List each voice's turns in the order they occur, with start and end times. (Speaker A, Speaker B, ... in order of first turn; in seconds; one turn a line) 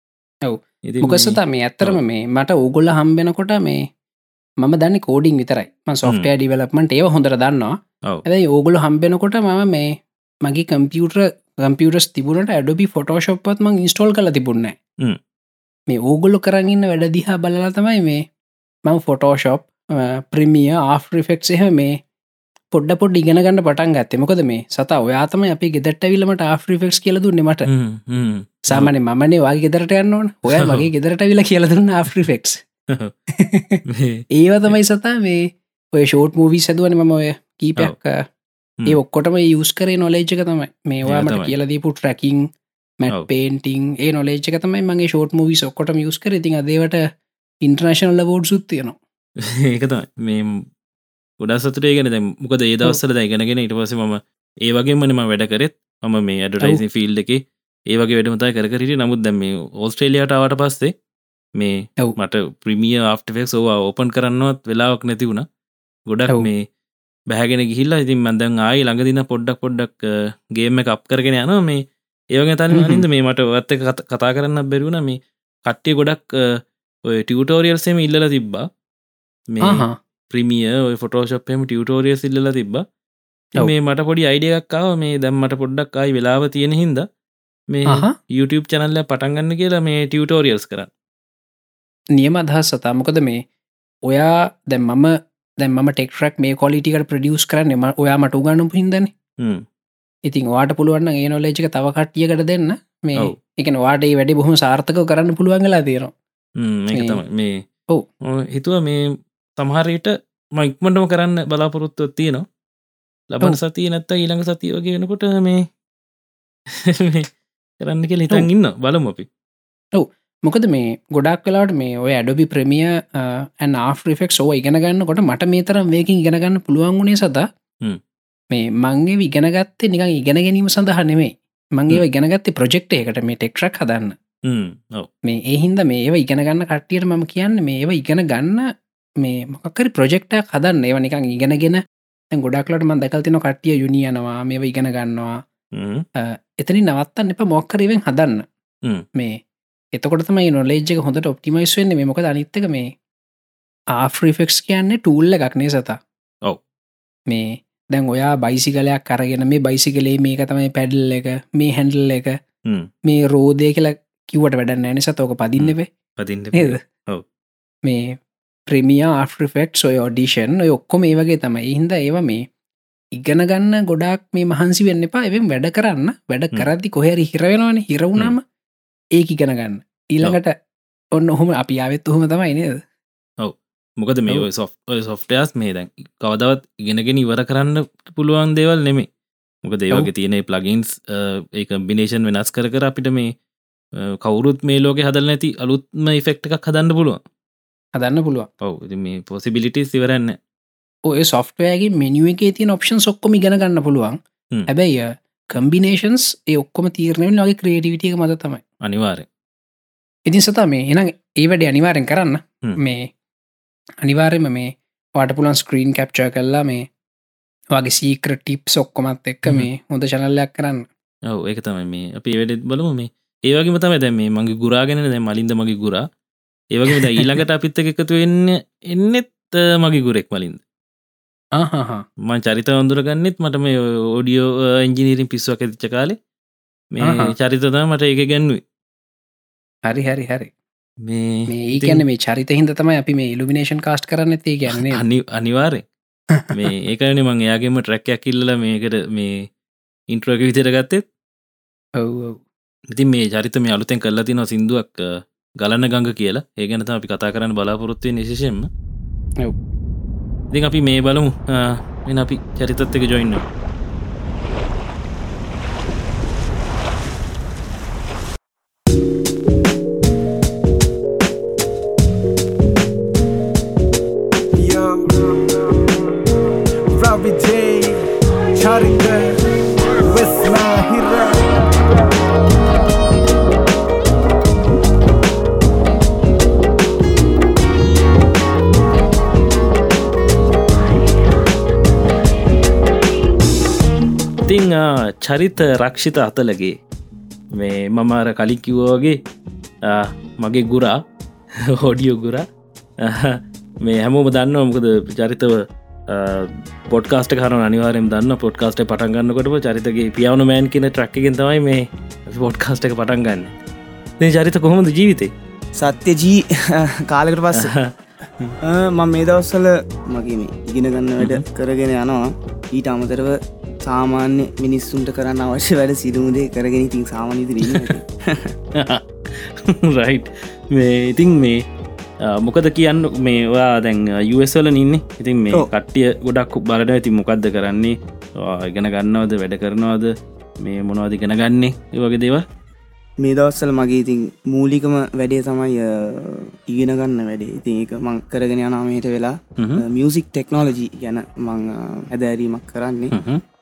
Speaker A: 0.5-3.8
Speaker B: 0.8-2.0
Speaker A: 4.6-7.8
Speaker A: 8.3-9.9
Speaker A: 10.4-14.8
Speaker A: 15.9-18.2
Speaker A: 18.9-21.9
Speaker A: 22.7-27.7
Speaker B: 27.7-28.9
Speaker A: 28.7-32.6
Speaker B: 30.5-30.9
Speaker A: 33.4-33.8
Speaker B: 33.9-34.7
Speaker A: 34.3-38.2
Speaker A: 38.9-42.5
Speaker B: 41.0-41.5
Speaker A: 43.0-47.0
Speaker A: 47.6-49.0
Speaker B: 49.4-50.7
Speaker B: 51.4-60.9
Speaker B: 61.6-65.5
Speaker B: 66.1-66.7
Speaker B: 67.3-78.7
Speaker A: 72.7-73.0
Speaker B: 79.5-82.8
Speaker A: 79.6-80.0
Speaker B: 83.6-87.1
Speaker B: 87.7-90.9
Speaker A: 87.9-88.2
Speaker A: 92.2-93.4
Speaker A: 94.1-99.1
Speaker B: 99.4-99.7
Speaker A: 100.3-106.1
Speaker B: 106.6-107.6
Speaker A: 106.9-107.2
Speaker B: 108.2-109.1
Speaker B: 109.6-112.5
Speaker B: 113.3-115.7
Speaker B: 116.7-117.3
Speaker B: 117.8-119.3
Speaker A: 120.0-127.5
Speaker A: 128.5-134.2
Speaker B: 134.4-135.1
Speaker A: 135.3-138.7
Speaker A: 139.2-141.8
Speaker A: 142.3-145.4
Speaker B: 145.8-146.1
Speaker A: 146.6-148.5
Speaker A: 149.9-152.9
Speaker A: 154.0-156.0
Speaker A: 157.3-162.3
Speaker A: 163.1-165.9
Speaker B: 165.6-167.2
Speaker A: 166.5-166.8
Speaker A: 167.8-168.2
Speaker A: 168.7-172.4
Speaker A: 173.2-178.4
Speaker A: 179.2-180.6
Speaker A: 181.2-182.8
Speaker B: 183.4-189.1
Speaker B: 189.6-193.3
Speaker B: 194.0-197.2
Speaker A: 198.0-198.5
Speaker B: 198.6-200.4
Speaker A: 201.1-208.6
Speaker B: 208.8-209.3
Speaker A: 210.3-213.1
Speaker A: 214.0-216.9
Speaker A: 217.7-220.9
Speaker B: 221.3-226.1
Speaker B: 226.7-230.6
Speaker A: 231.6-232.1
Speaker B: 232.2-236.2
Speaker B: 236.9-238.6
Speaker A: 237.0-237.3
Speaker A: 239.9-240.5
Speaker B: 241.0-242.0
Speaker A: 241.5-245.0
Speaker B: 244.7-245.8
Speaker B: 246.5-249.5
Speaker B: 250.1-251.0
Speaker A: 252.0-252.4
Speaker B: 252.9-258.7
Speaker B: 260.5-263.5
Speaker C: 274.6-276.2
Speaker C: 276.9-278.1
Speaker C: 278.6-279.4
Speaker C: 280.1-282.2
Speaker B: 294.5-296.8
Speaker B: 297.5-299.2
Speaker B: 299.8-301.0
Speaker B: 301.6-302.4
Speaker B: 303.0-313.5
Speaker B: 314.2-315.3
Speaker D: 315.8-317.7
Speaker B: 317.5-318.6
Speaker D: 318.6-328.6
Speaker B: 321.2-321.4
Speaker B: 328.8-331.6
Speaker B: 332.2-342.5
Speaker D: 343.2-353.1
Speaker B: 349.6-349.8
Speaker B: 353.1-353.4